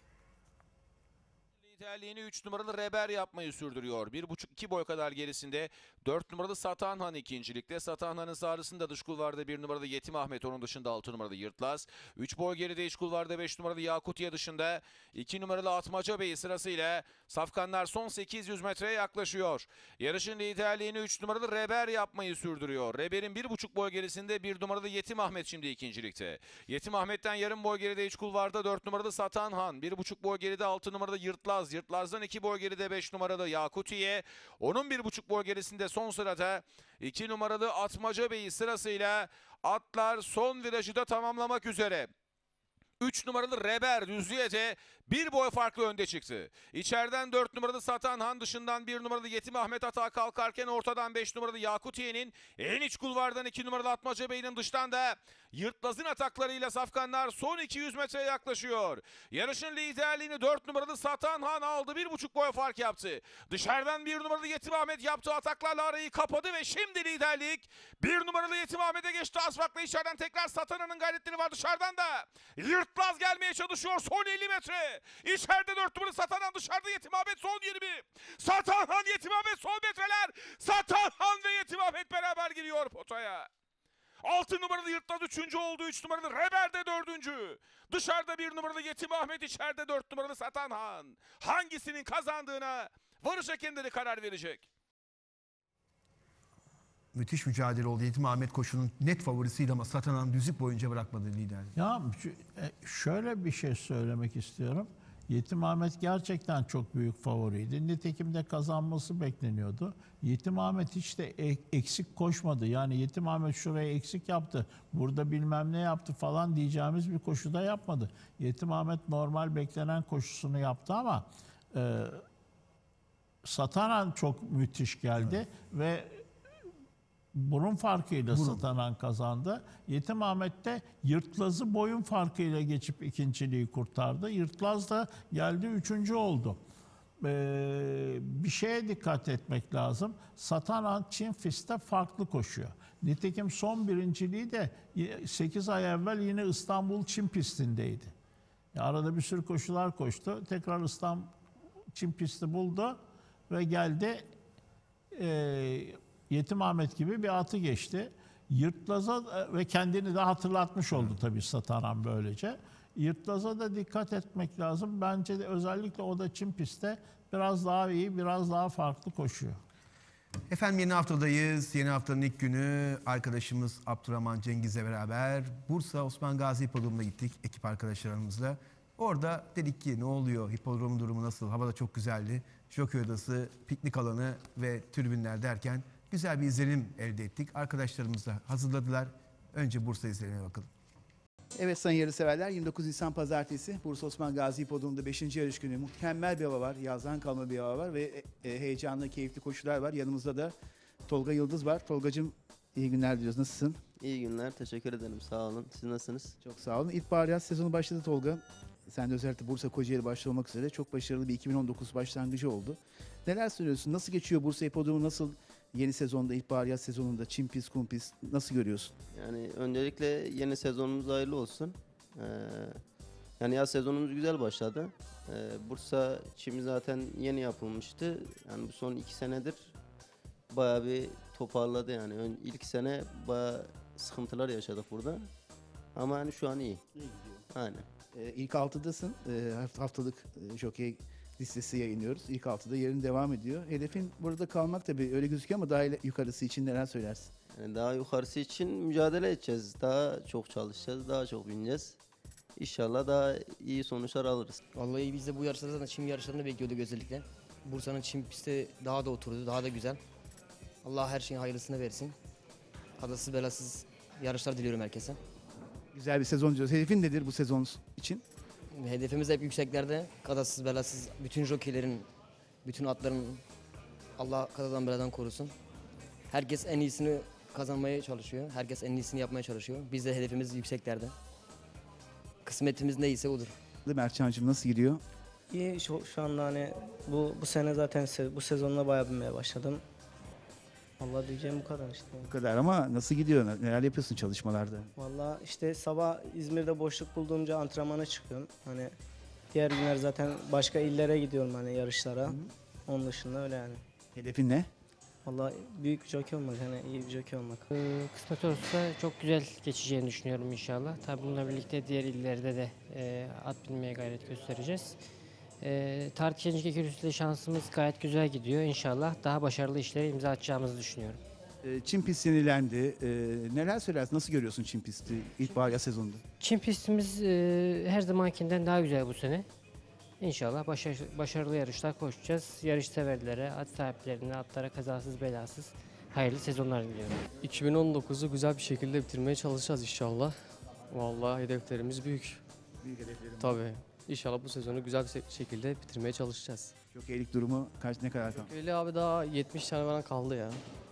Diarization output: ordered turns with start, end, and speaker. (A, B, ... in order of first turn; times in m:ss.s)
0:01.6-0:42.1 A
0:43.0-1:23.5 A
1:24.2-1:34.7 A
1:37.1-1:41.7 B
1:41.8-2:02.2 C
2:03.4-2:06.2 C
2:07.3-2:16.6 C
2:08.3-2:08.6 B
2:17.2-2:28.1 C
2:28.7-2:31.3 C
2:31.9-2:34.3 C
2:35.1-2:49.6 C
2:50.5-3:10.7 B
3:11.6-3:20.5 D
3:21.1-3:23.8 D
3:24.0-3:26.4 E
3:26.4-3:38.9 D
3:39.1-3:42.8 E
3:43.4-3:49.8 E
3:50.5-3:55.3 E
3:56.0-3:56.8 E
3:57.0-3:57.4 D
3:57.5-3:57.9 E
3:58.1-4:07.3 D
4:07.5-4:12.0 E
4:12.6-4:14.6 E
4:14.8-4:20.0 F
4:20.8-4:22.2 F
4:23.0-4:25.2 F
4:25.9-4:28.2 D
4:28.7-4:32.1 F
4:32.6-4:33.4 F
4:34.2-4:35.5 F
4:36.3-4:41.1 F
4:42.5-4:43.6 F
4:43.9-4:45.0 D
4:45.5-4:49.8 G
4:51.0-4:52.3 G
4:52.3-4:54.9 D
4:55.0-4:59.0 G
4:59.5-5:03.8 G
5:04.2-5:04.7 D
5:05.3-5:07.7 G
5:07.7-5:15.0 H
5:15.6-5:21.2 H
5:21.6-5:26.2 D
5:26.4-5:29.5 H
5:30.2-5:37.2 H
5:37.4-5:40.4 I
5:40.9-5:42.4 I
5:42.8-5:43.6 D
5:43.4-5:46.7 I
5:46.9-5:48.5 D
5:48.4-5:50.6 I